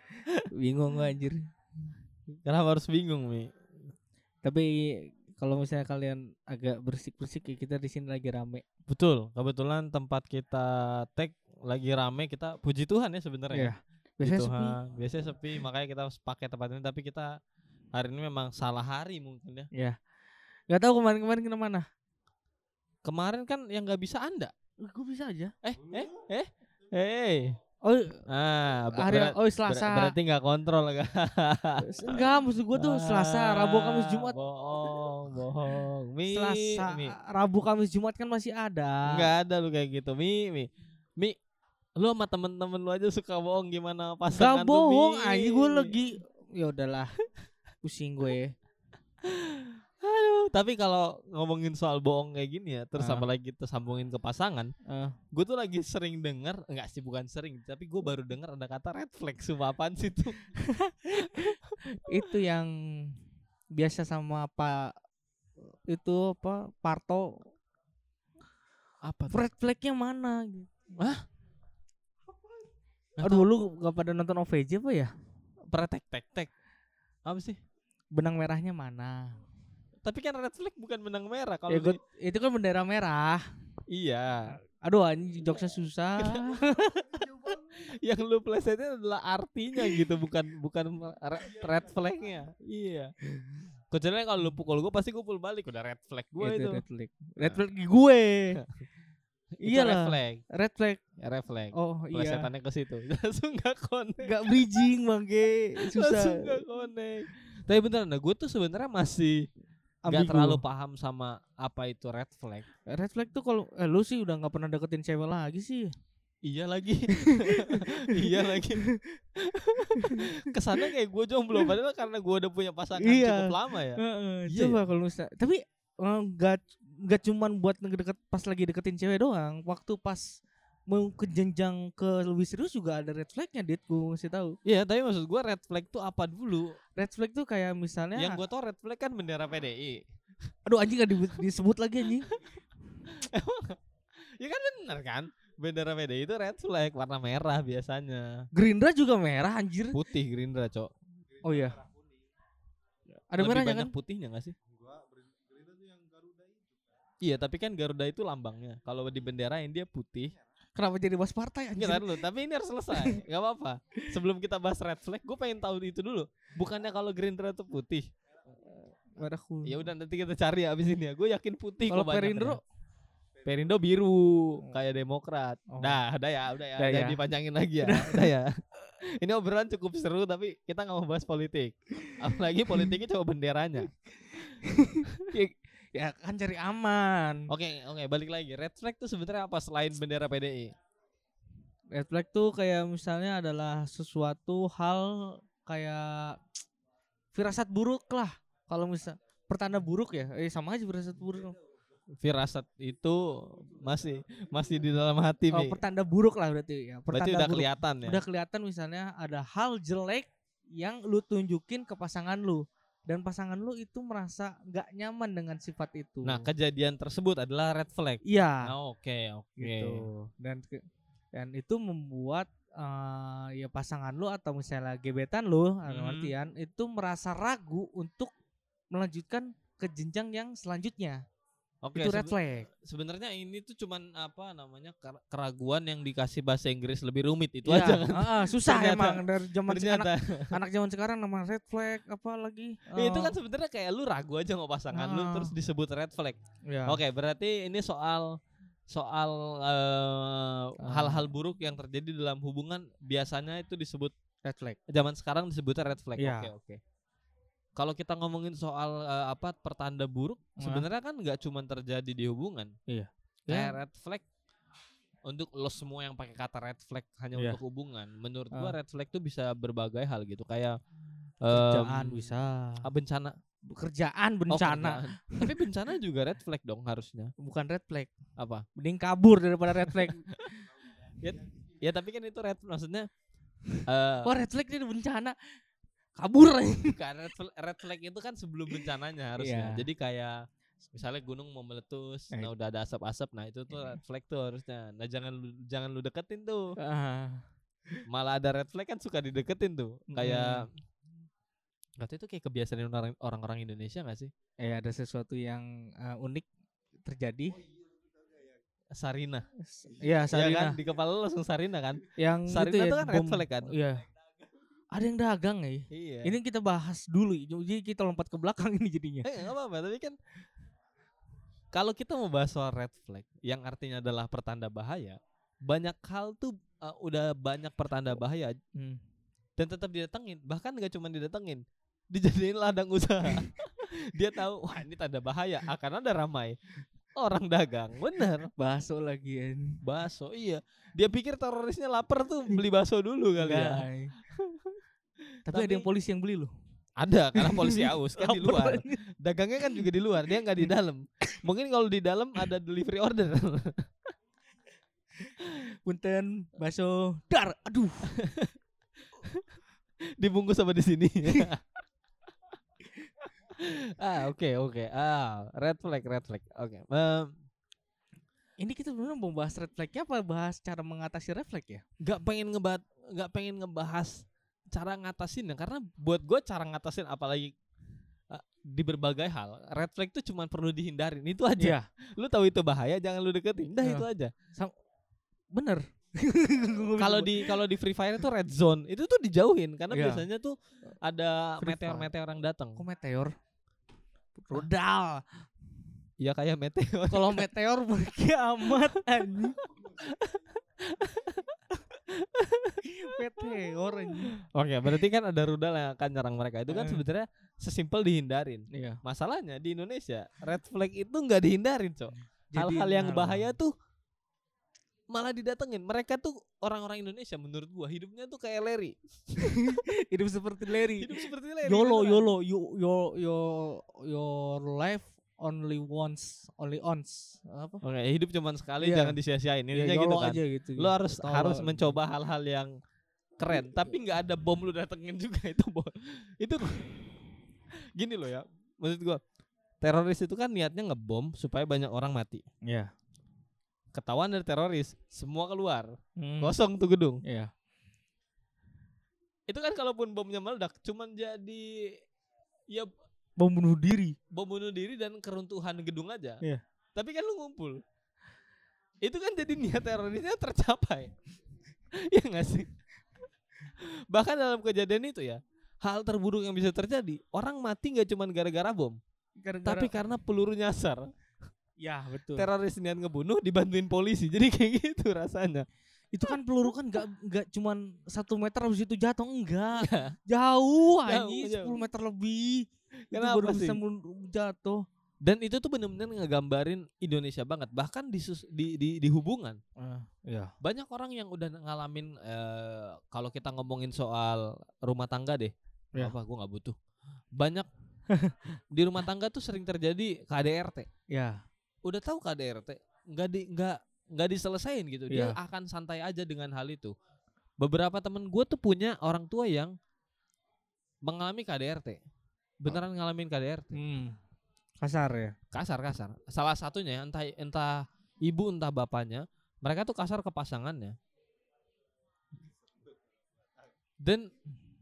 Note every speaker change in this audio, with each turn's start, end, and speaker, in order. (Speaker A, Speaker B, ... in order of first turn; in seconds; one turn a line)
Speaker A: 0.5-1.5
Speaker B: 2.5-3.5
Speaker A: 4.4-8.6
Speaker B: 8.9-13.7
Speaker A: 13.5-14.8
Speaker B: 14.2-17.3
Speaker B: 17.9-19.7
Speaker A: 19.7-20.0
Speaker A: 20.7-21.9
Speaker B: 23.0-24.5
Speaker A: 24.8-25.5
Speaker B: 25.6-27.6
Speaker A: 27.8-28.2
Speaker B: 28.3-37.1
Speaker A: 28.9-30.1
Speaker A: 31.8-34.4
Speaker A: 36.3-39.3
Speaker B: 39.1-41.4
Speaker B: 42.0-46.0
Speaker A: 44.3-47.1
Speaker A: 47.8-48.5
Speaker B: 49.2-54.7
Speaker A: 53.0-53.3
Speaker A: 54.9-55.2
Speaker B: 55.3-60.4
Speaker A: 60.8-63.1
Speaker B: 61.1-61.7
Speaker A: 63.7-64.9
Speaker A: 65.9-67.4
Speaker B: 69.0-69.4
Speaker A: 69.3-70.7
Speaker B: 73.2-73.5
Speaker A: 73.2-75.1
Speaker B: 75.7-76.5
Speaker B: 77.2-77.6
Speaker A: 78.1-79.4
Speaker B: 80.0-82.0
Speaker A: 81.7-83.5
Speaker B: 83.9-84.6
Speaker A: 84.8-87.6
Speaker B: 86.2-86.7
Speaker B: 87.4-93.1
Speaker B: 93.9-96.8
Speaker A: 96.4-98.6
Speaker A: 99.6-101.0
Speaker B: 99.6-100.4
Speaker B: 101.2-104.8
Speaker A: 101.7-102.5
Speaker A: 104.2-106.6
Speaker B: 105.8-109.5
Speaker A: 110.0-110.6
Speaker B: 110.1-112.7
Speaker A: 112.9-115.9
Speaker B: 116.4-118.8
Speaker A: 117.2-118.8
Speaker B: 119.4-124.8
Speaker A: 119.9-120.3
Speaker A: 123.0-134.6
Speaker B: 134.7-136.8
Speaker A: 137.0-138.4
Speaker B: 138.2-140.0
Speaker A: 140.7-142.3
Speaker B: 143.1-143.8
Speaker B: 144.4-148.5
Speaker A: 148.5-150.0
Speaker B: 149.9-150.9
Speaker A: 151.4-151.9
Speaker A: 153.3-153.9
Speaker B: 153.4-154.6
Speaker B: 157.2-160.3
Speaker A: 160.8-162.2
Speaker B: 161.8-168.1
Speaker A: 169.2-169.9
Speaker B: 169.7-172.6
Speaker A: 171.9-172.6
Speaker B: 173.4-178.5
Speaker A: 175.7-176.0
Speaker A: 176.8-177.2
Speaker A: 177.8-178.3
Speaker B: 179.0-183.9
Speaker A: 184.3-187.5
Speaker B: 187.5-190.8
Speaker A: 191.9-196.4
Speaker A: 197.3-201.6
Speaker B: 202.2-205.8
Speaker A: 205.5-216.5
Speaker B: 207.1-208.2
Speaker B: 216.2-220.1
Speaker A: 218.2-218.7
Speaker A: 219.6-228.3
Speaker B: 225.9-226.3
Speaker A: 228.9-231.2
Speaker B: 231.8-240.6
Speaker A: 232.0-232.7
Speaker A: 237.7-243.3
Speaker B: 242.9-248.3
Speaker A: 244.9-245.5
Speaker A: 246.7-247.0
Speaker B: 248.9-254.1
Speaker A: 250.8-251.3
Speaker A: 254.4-254.8
Speaker B: 254.9-256.8
Speaker A: 256.2-256.5
Speaker B: 257.8-262.7
Speaker A: 260.6-260.9
Speaker A: 262.9-263.8
Speaker B: 263.5-264.2
Speaker B: 265.2-270.8
Speaker B: 271.4-273.4
Speaker A: 271.5-272.9
Speaker A: 273.7-275.7
Speaker B: 274.5-277.3
Speaker A: 277.4-278.1
Speaker B: 278.4-278.6
Speaker A: 278.8-280.7
Speaker B: 279.9-280.6
Speaker B: 281.2-283.1
Speaker B: 283.9-284.3
Speaker A: 284.2-285.3
Speaker A: 286.1-287.0
Speaker B: 286.9-290.4
Speaker A: 289.4-289.8
Speaker B: 290.9-296.7
Speaker A: 296.8-297.4
Speaker B: 298.1-300.8
Speaker A: 300.1-300.7
Speaker B: 302.0-304.3
Speaker A: 304.6-306.5
Speaker A: 307.0-307.6
Speaker B: 308.9-309.4
Speaker A: 309.6-310.8
Speaker B: 310.3-313.7
Speaker A: 312.2-314.0
Speaker A: 314.9-319.3
Speaker B: 315.9-316.3
Speaker B: 319.2-320.2
Speaker B: 321.7-328.6
Speaker B: 329.6-336.6
Speaker B: 337.1-338.5
Speaker A: 338.6-339.8
Speaker B: 339.8-344.8
Speaker A: 343.4-344.1
Speaker A: 345.5-346.5
Speaker B: 345.5-345.9
Speaker B: 347.0-353.8
Speaker A: 347.4-349.0
Speaker A: 355.6-358.2
Speaker B: 358.1-358.5
Speaker B: 360.2-361.6
Speaker B: 363.6-367.3
Speaker A: 368.6-371.8
Speaker B: 372.0-377.5
Speaker B: 378.3-384.3
Speaker A: 381.6-381.9
Speaker A: 383.8-384.7
Speaker A: 385.5-387.6
Speaker B: 387.0-392.8
Speaker A: 389.9-390.2
Speaker A: 391.6-392.1
Speaker A: 392.8-393.3
Speaker A: 394.4-395.2
Speaker B: 396.2-397.5
Speaker A: 397.1-399.6
Speaker B: 398.7-401.6
Speaker B: 402.1-402.8
Speaker A: 402.8-404.3
Speaker B: 404.4-413.7
Speaker A: 406.7-407.0
Speaker A: 408.7-409.0
Speaker A: 412.5-413.5
Speaker B: 415.1-419.8
Speaker A: 419.4-427.8
Speaker B: 420.7-422.3
Speaker B: 427.8-432.7
Speaker A: 428.8-429.2
Speaker A: 429.7-432.0
Speaker B: 433.4-436.9
Speaker B: 437.9-439.2
Speaker B: 439.8-442.4
Speaker B: 443.9-447.2
Speaker A: 446.2-446.6
Speaker A: 447.2-447.5
Speaker B: 449.5-452.0
Speaker A: 453.4-454.1
Speaker B: 454.3-456.4
Speaker B: 456.9-457.8
Speaker B: 459.0-461.1
Speaker B: 462.0-462.7
Speaker B: 463.8-469.0
Speaker A: 469.4-469.9
Speaker B: 469.6-471.1
Speaker A: 471.8-472.5
Speaker B: 472.3-475.7
Speaker A: 476.1-484.8
Speaker B: 479.8-480.1
Speaker B: 481.0-481.8
Speaker B: 483.1-483.8
Speaker B: 485.2-489.6
Speaker A: 489.8-490.5
Speaker B: 490.6-496.8
Speaker B: 497.4-497.7
Speaker B: 498.7-500.9
Speaker A: 501.1-501.4
Speaker B: 501.8-506.9
Speaker A: 505.1-505.4
Speaker B: 507.6-509.7
Speaker B: 511.1-512.0
Speaker B: 512.6-513.8
Speaker A: 513.7-514.2
Speaker A: 514.8-515.4
Speaker B: 515.5-521.0
Speaker B: 524.0-524.3